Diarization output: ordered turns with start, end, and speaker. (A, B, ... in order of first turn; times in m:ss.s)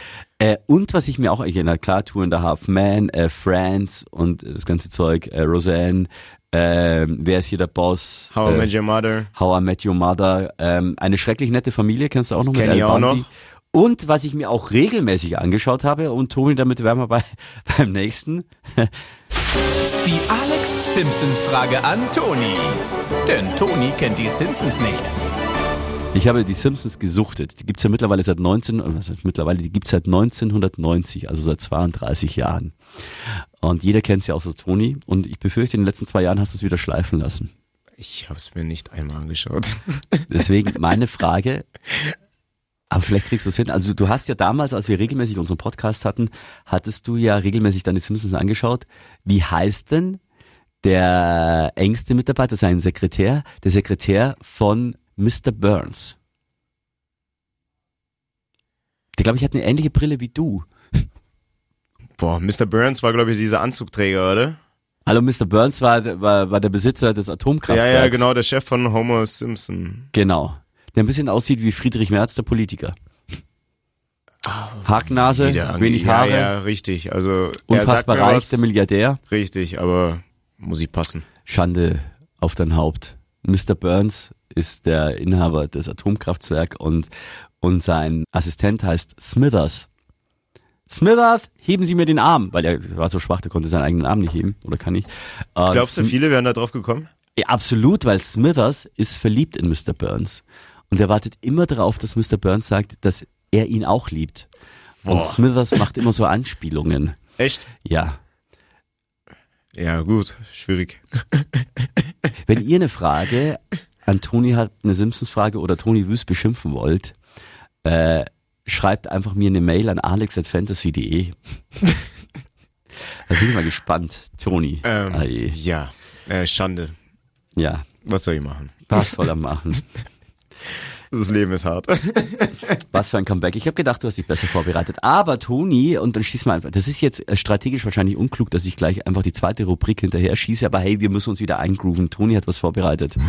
0:00.4-0:08.7 A
0:08.3-0:09.3 B
0:09.3-0:18.9 A
0:12.5-0:13.3 B
0:19.9-0:25.1 C
0:26.1-0:37.5 A
0:38.0-0:40.3 B
0:40.3-0:41.6 A
0:42.9-0:50.2 A
0:50.8-0:56.2 A
0:59.2-1:01.1 A
1:02.2-1:04.6 B
1:05.0-1:08.2 A
1:07.7-1:10.1 B
1:10.1-1:12.9 A
1:14.4-1:18.6 B
1:14.8-1:16.5 A
1:17.7-1:19.2 A
1:19.3-1:21.2 B
1:21.4-1:27.1 A
1:27.6-1:29.9 A
1:30.9-1:36.1 A
1:35.7-1:37.1 B
1:37.4-1:44.5 A
1:45.0-1:45.4 B
1:45.0-1:47.2 A
1:47.4-1:47.7 B
1:47.8-1:48.2 A
1:49.7-1:52.1 B
1:52.4-1:57.2 A
1:57.8-2:01.4 A
2:03.2-2:05.6 A
2:04.8-2:06.9 B
2:07.6-2:07.9 A
2:08.0-2:09.2 B
2:08.9-2:09.9 A
2:11.1-2:12.8 B
2:12.9-2:23.2 A